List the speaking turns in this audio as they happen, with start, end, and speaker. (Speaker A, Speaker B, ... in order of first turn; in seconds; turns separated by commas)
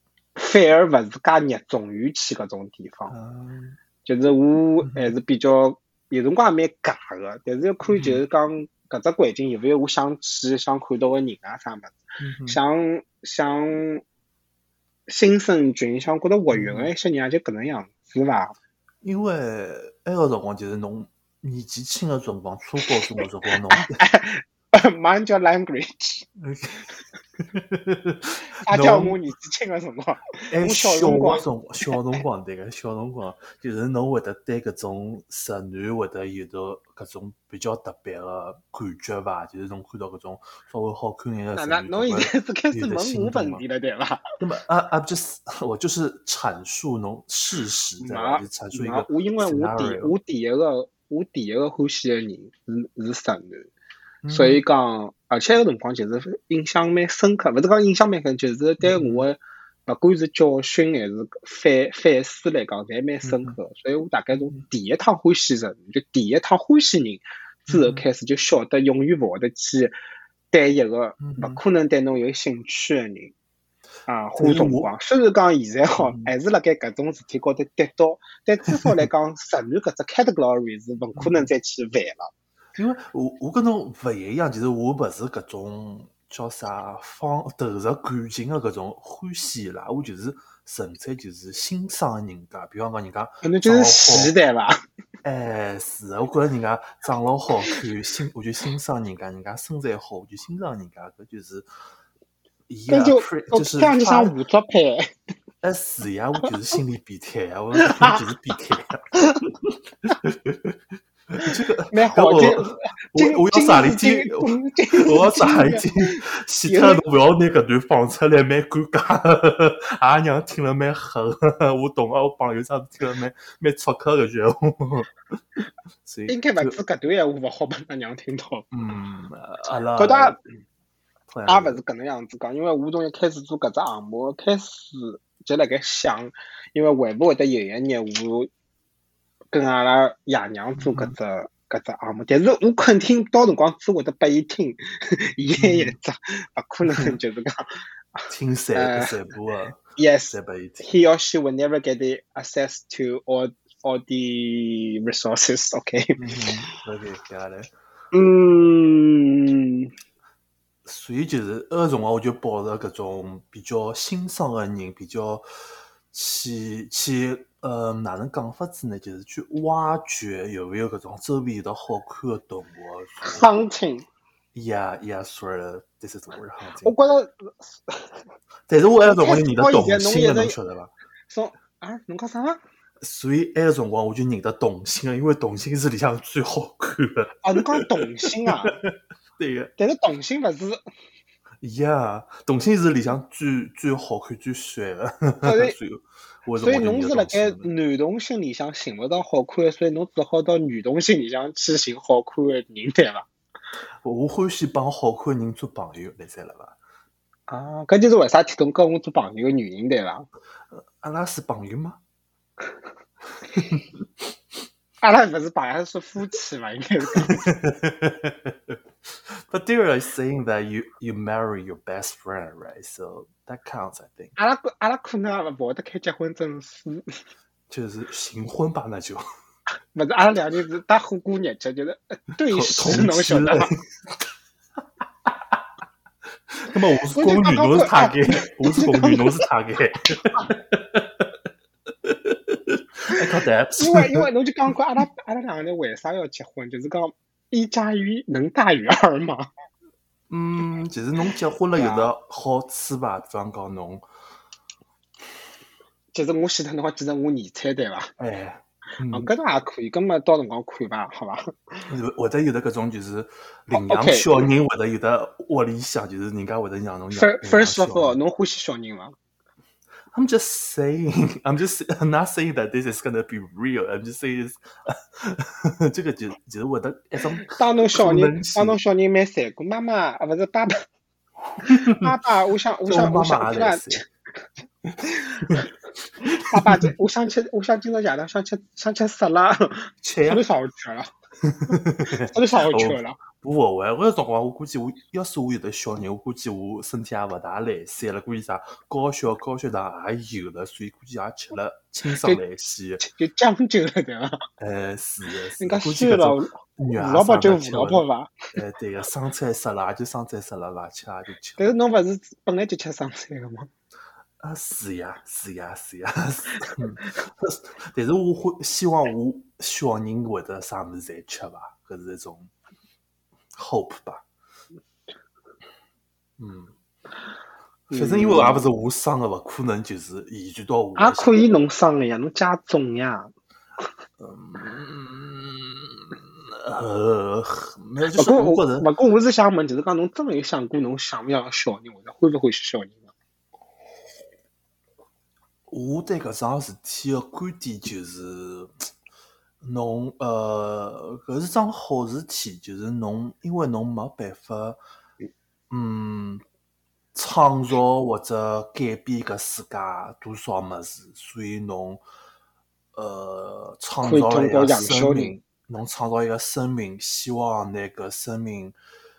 Speaker A: 0.4-3.1, Speaker B: 3.1-3.8, Speaker A: 4.0-12.0, Speaker B: 4.8-5.1, Speaker B: 7.9-8.2, Speaker B: 12.2-12.6, Speaker A: 12.5-14.0, Speaker A: 15.1-18.5, Speaker B: 16.5-16.9, Speaker B: 19.0-23.9, Speaker A: 23.7-26.3, Speaker B: 26.4-26.9, Speaker B: 27.4-29.2, Speaker A: 28.6-31.5, Speaker B: 30.5-43.6, Speaker A: 41.6-44.2, Speaker B: 44.4-50.1, Speaker A: 48.0-53.7, Speaker B: 54.2-54.6, Speaker A: 54.3-70.0, Speaker B: 58.8-59.2, Speaker B: 63.2-63.6, Speaker B: 64.4-64.7, Speaker B: 67.7-68.0, Speaker A: 70.5-73.3, Speaker B: 71.2-71.6, Speaker A: 74.1-82.3, Speaker B: 74.4-74.9, Speaker B: 76.0-76.3, Speaker B: 78.7-79.0, Speaker B: 81.2-81.5, Speaker B: 82.8-94.3, Speaker A: 93.4-94.8, Speaker B: 95.2-101.7, Speaker B: 102.7-104.3, Speaker A: 102.9-105.1, Speaker B: 105.6-110.8, Speaker A: 107.8-108.2, Speaker B: 111.3-125.1, Speaker A: 111.9-117.0, Speaker B: 126.0-126.8, Speaker A: 126.3-128.7, Speaker B: 128.7-130.4, Speaker A: 130.0-130.4, Speaker B: 131.3-131.8, Speaker A: 131.5-138.5, Speaker A: 139.5-147.6, Speaker B: 140.8-141.2, Speaker B: 145.6-145.9, Speaker B: 146.9-147.2, Speaker A: 148.2-149.2, Speaker B: 148.3-150.9, Speaker A: 150.0-156.2, Speaker B: 156.2-157.7, Speaker A: 158.1-159.9, Speaker B: 160.8-165.5, Speaker B: 166.1-173.5, Speaker A: 173.2-174.1, Speaker B: 174.5-176.9, Speaker A: 176.8-178.1, Speaker B: 178.7-180.9, Speaker A: 179.1-180.6, Speaker A: 181.3-182.6, Speaker B: 183.0-189.7, Speaker A: 187.4-188.8, Speaker A: 189.8-190.8, Speaker B: 191.6-197.7, Speaker A: 195.4-195.8, Speaker A: 196.6-203.3, Speaker B: 204.0-206.8, Speaker A: 207.5-210.3, Speaker B: 210.7-212.0, Speaker B: 213.5-214.3, Speaker A: 215.0-217.5, Speaker B: 217.1-224.3, Speaker A: 224.4-227.2, Speaker B: 227.7-229.2, Speaker A: 229.9-233.7, Speaker B: 232.5-233.8, Speaker B: 235.3-235.5, Speaker B: 236.5-241.3, Speaker A: 237.1-239.4, Speaker B: 242.0-244.3, Speaker A: 243.8-249.5, Speaker B: 250.3-254.1, Speaker A: 251.8-252.1, Speaker A: 256.1-258.1, Speaker B: 258.2-259.3, Speaker A: 259.1-261.9, Speaker B: 261.9-268.2, Speaker A: 263.7-264.5, Speaker A: 267.1-269.1, Speaker B: 270.1-278.8, Speaker A: 277.5-280.7, Speaker B: 281.6-282.1, Speaker A: 281.6-284.0, Speaker B: 282.9-284.0, Speaker A: 285.0-285.7, Speaker B: 286.2-286.9, Speaker A: 286.3-291.1, Speaker B: 290.0-290.4, Speaker B: 291.4-303.0, Speaker A: 291.7-293.2, Speaker A: 303.0-304.4, Speaker B: 304.6-311.7, Speaker A: 305.6-308.3, Speaker A: 311.6-313.7, Speaker B: 314.4-322.5, Speaker B: 323.6-324.2, Speaker B: 326.4-326.7, Speaker A: 327.9-328.7, Speaker B: 327.9-331.4, Speaker A: 331.0-333.3, Speaker B: 334.2-338.9, Speaker A: 338.2-343.1, Speaker B: 345.7-348.7, Speaker B: 349.6-354.8, Speaker B: 355.7-356.4, Speaker B: 357.1-362.0, Speaker B: 362.9-368.8, Speaker A: 364.0-365.4